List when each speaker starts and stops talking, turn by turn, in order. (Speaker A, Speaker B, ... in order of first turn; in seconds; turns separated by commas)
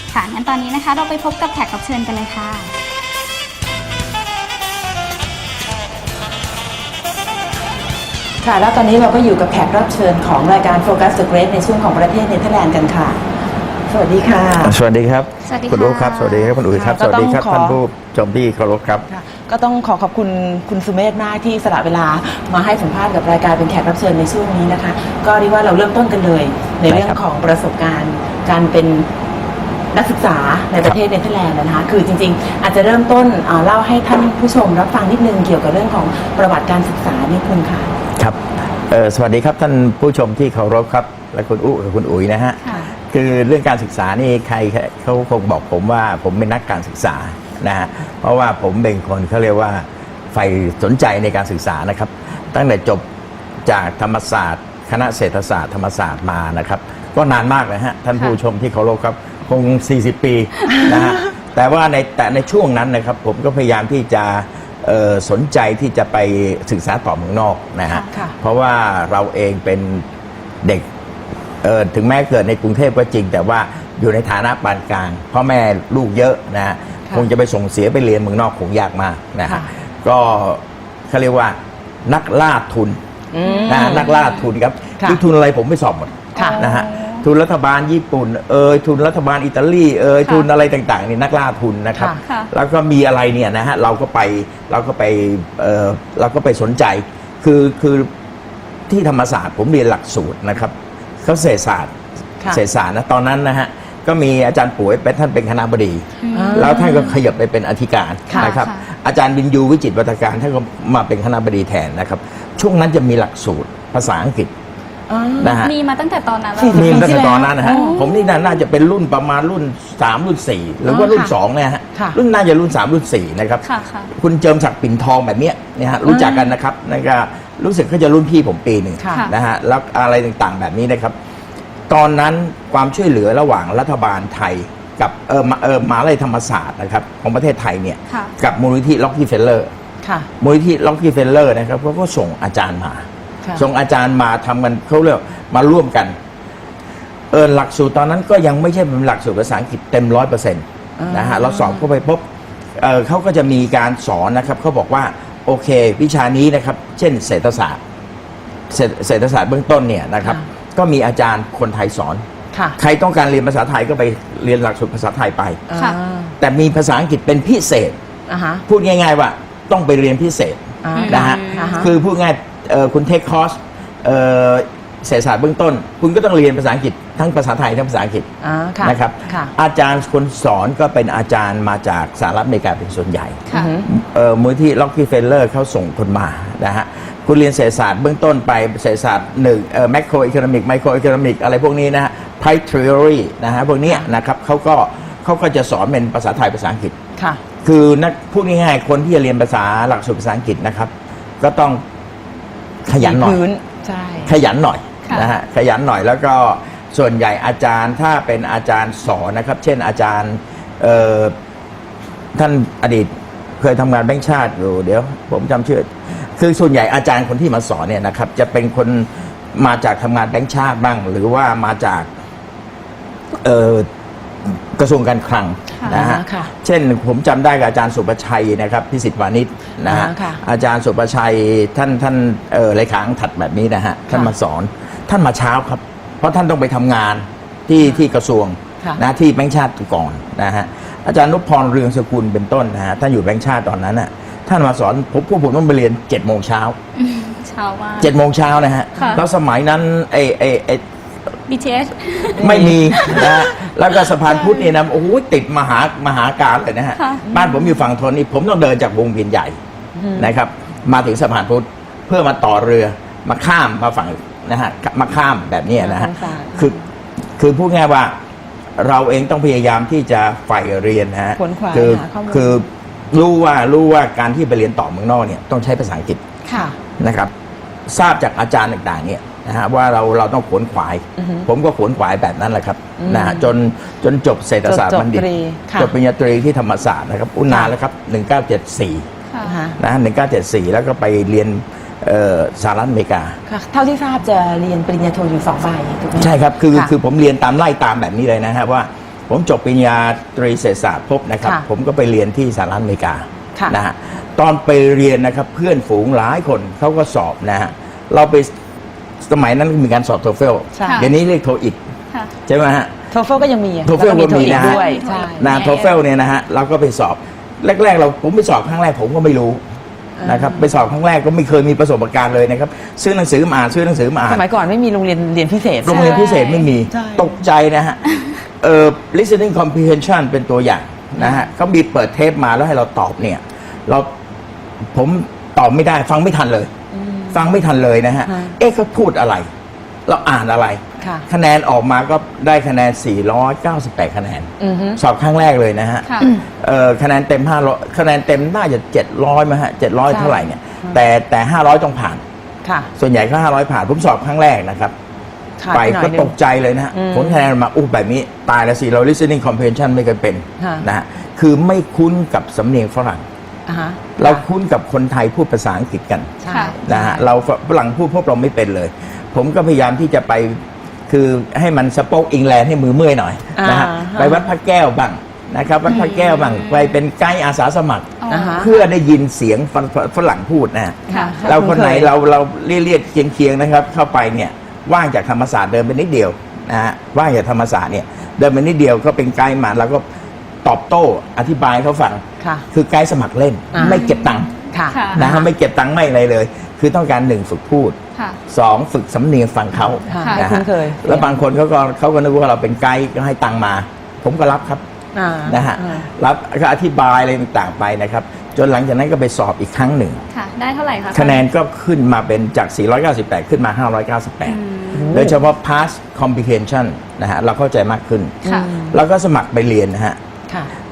Speaker A: 0.1-2.7, Speaker B: 8.4-13.2, Speaker B: 13.9-14.8, Speaker C: 14.6-19.1, Speaker A: 15.4-16.7, Speaker B: 16.8-17.8, Speaker B: 19.1-29.1, Speaker C: 26.9-27.2, Speaker B: 29.9-38.0, Speaker C: 38.2-53.0, Speaker C: 53.7-70.1, Speaker C: 71.6-83.0, Speaker B: 83.3-84.1, Speaker A: 83.4-84.5, Speaker C: 83.7-98.1, Speaker A: 86.3-87.3, Speaker B: 91.9-92.2, Speaker A: 92.2-92.5, Speaker C: 98.9-101.9, Speaker C: 102.5-114.5, Speaker A: 106.2-107.2, Speaker B: 106.3-107.2, Speaker B: 108.3-108.6, Speaker A: 108.3-108.8, Speaker B: 115.1-115.7, Speaker C: 115.4-115.7, Speaker A: 115.6-118.5, Speaker B: 116.6-118.2, Speaker C: 116.7-131.2, Speaker B: 120.9-121.3, Speaker B: 121.9-122.2, Speaker A: 123.6-124.1, Speaker B: 126.1-126.5, Speaker B: 129.0-129.3, Speaker C: 131.9-139.7, Speaker A: 138.1-138.3, Speaker B: 140.0-140.3, Speaker C: 140.4-146.2, Speaker C: 147.3-152.2, Speaker B: 151.0-151.9, Speaker C: 152.8-157.8, Speaker C: 158.7-162.3, Speaker B: 162.5-162.8, Speaker C: 162.8-165.6, Speaker B: 165.7-166.3, Speaker C: 166.4-168.0, Speaker B: 168.3-168.6, Speaker C: 168.7-178.3, Speaker B: 170.8-171.9, Speaker A: 170.9-171.9, Speaker B: 178.4-179.5, Speaker C: 178.8-197.0, Speaker B: 183.5-183.9, Speaker B: 193.9-194.1, Speaker B: 197.2-197.4, Speaker C: 197.6-201.8, Speaker C: 202.9-203.4, Speaker B: 203.0-204.4, Speaker C: 204.2-211.3, Speaker A: 205.1-205.3, Speaker C: 212.3-222.1, Speaker C: 223.3-223.9, Speaker C: 224.4-246.8, Speaker B: 225.9-226.5, Speaker B: 229.8-230.4, Speaker B: 237.8-238.1, Speaker A: 247.0-248.1, Speaker C: 248.0-250.8, Speaker A: 249.0-249.2, Speaker A: 251.5-253.4, Speaker B: 252.4-253.2, Speaker C: 252.4-259.6, Speaker B: 254.2-254.7, Speaker A: 257.0-257.2, Speaker B: 257.2-257.7, Speaker B: 260.0-260.4, Speaker C: 260.2-266.8, Speaker B: 265.7-266.8, Speaker C: 267.4-268.2, Speaker C: 268.8-276.2, Speaker B: 271.4-272.6, Speaker C: 277.0-277.3, Speaker C: 277.9-289.1, Speaker B: 281.2-281.5, Speaker B: 283.0-283.5, Speaker B: 284.6-285.9, Speaker B: 287.5-287.7, Speaker A: 289.3-289.6, Speaker B: 289.4-289.8, Speaker C: 289.8-293.4, Speaker B: 293.5-296.9, Speaker C: 296.2-308.5, Speaker C: 309.2-311.8, Speaker B: 310.8-311.1, Speaker A: 310.8-311.1, Speaker C: 312.5-312.9, Speaker B: 313.1-315.5, Speaker C: 313.9-319.6, Speaker A: 314.4-316.0, Speaker B: 320.2-320.7, Speaker C: 320.2-324.4, Speaker B: 324.2-326.3, Speaker C: 325.8-328.0, Speaker A: 325.9-326.7, Speaker B: 326.9-327.4, Speaker C: 328.6-334.1, Speaker B: 331.2-331.5, Speaker C: 334.9-336.7, Speaker B: 336.9-337.5, Speaker C: 337.3-339.5, Speaker B: 338.3-338.6, Speaker C: 340.1-352.2, Speaker B: 341.0-341.3, Speaker B: 344.6-345.0, Speaker A: 346.0-346.3, Speaker B: 350.1-351.0, Speaker B: 352.6-352.9, Speaker C: 353.0-354.9, Speaker B: 355.6-356.3, Speaker C: 355.7-363.2, Speaker B: 356.9-357.5, Speaker B: 360.6-360.9, Speaker B: 363.7-364.4, Speaker C: 364.2-390.1, Speaker B: 366.4-367.3, Speaker A: 366.5-366.8, Speaker B: 373.6-374.4, Speaker A: 375.9-377.0, Speaker A: 378.2-378.7, Speaker B: 378.3-378.7, Speaker B: 381.1-382.1, Speaker A: 381.1-381.4, Speaker C: 390.6-394.5, Speaker B: 392.4-392.6, Speaker B: 393.7-394.1, Speaker A: 393.8-395.2, Speaker B: 394.7-395.5, Speaker C: 395.1-398.0, Speaker C: 398.5-404.8, Speaker B: 399.8-401.4, Speaker A: 400.1-400.4, Speaker B: 405.1-406.1, Speaker C: 405.5-410.2, Speaker A: 410.3-411.4, Speaker C: 411.1-420.2, Speaker A: 414.4-415.2, Speaker B: 414.9-415.4, Speaker A: 418.4-418.7, Speaker B: 418.4-418.9